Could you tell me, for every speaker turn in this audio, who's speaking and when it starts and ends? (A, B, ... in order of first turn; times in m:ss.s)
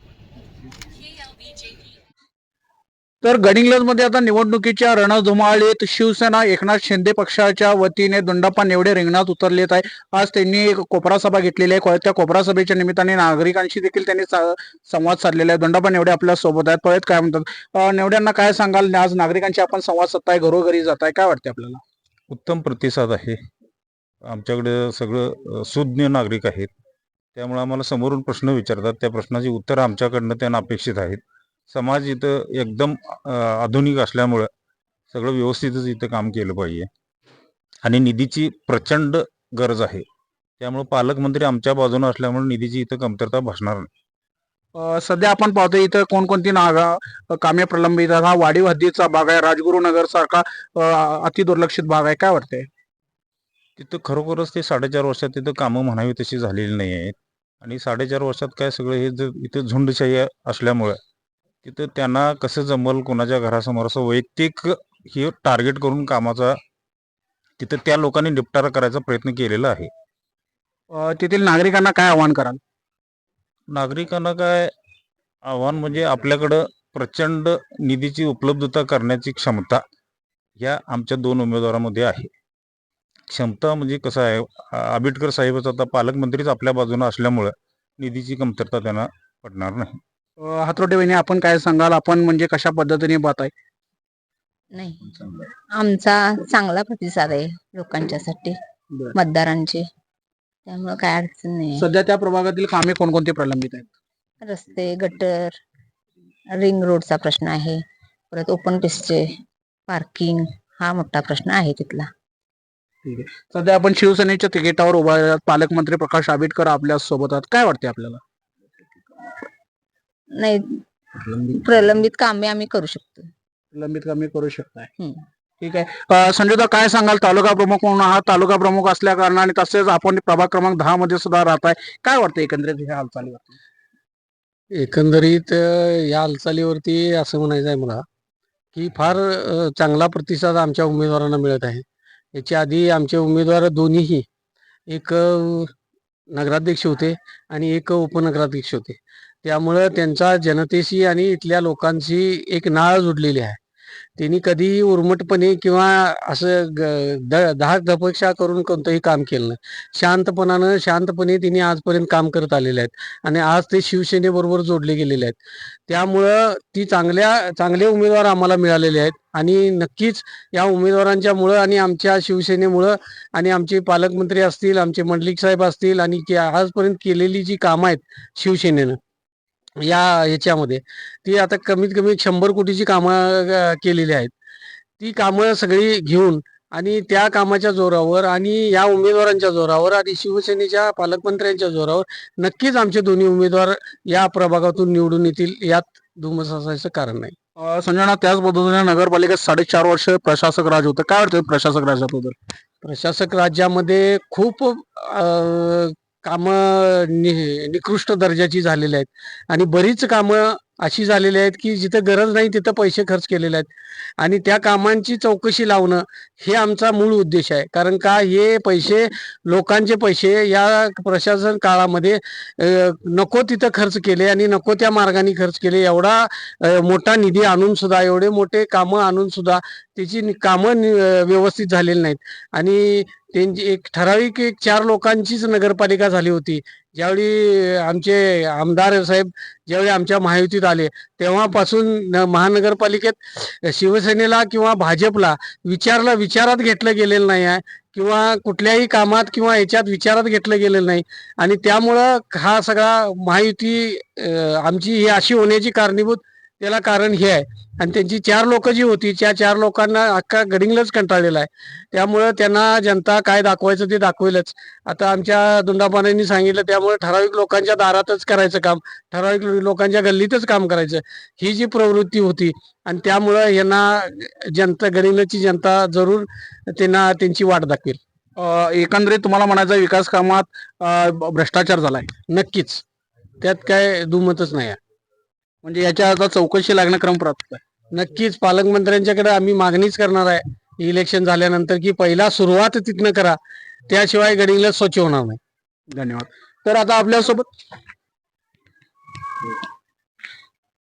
0:03.2-0:21.8 A
0:22.3-0:23.4 B
0:24.2-0:26.7 B
0:27.3-0:34.5 B
0:35.1-0:36.9 B
0:37.8-0:40.0 B
0:40.6-0:43.9 B
0:44.7-0:52.7 A
0:53.8-1:01.0 B
1:01.6-1:06.6 B
1:07.6-1:09.9 B
1:10.9-1:12.6 A
1:13.7-1:14.7 B
1:15.4-1:19.8 B
1:20.6-1:22.3 B
1:23.3-1:30.0 B
1:30.4-1:33.5 A
1:34.7-1:38.6 C
1:39.1-1:39.8 C
1:40.6-1:41.8 C
1:41.8-1:43.9 A
1:44.4-1:45.6 C
1:46.5-1:49.3 C
1:49.9-1:52.1 C
1:53.0-1:58.2 A
2:00.4-2:03.3 C
2:03.7-2:04.9 A
2:05.6-2:13.6 A
2:14.7-2:18.0 D
2:18.7-2:24.2 D
2:24.9-2:25.7 D
2:26.3-2:33.6 D
2:34.2-2:59.0 D
2:59.8-3:04.3 D
3:05.0-3:17.3 D
3:17.6-3:22.4 A
3:22.8-4:38.0 D
4:38.4-4:42.1 A
4:42.3-4:42.8 D
4:43.4-4:44.8 D
4:45.6-4:47.6 A
4:47.9-4:55.4 D
4:55.9-4:57.5 A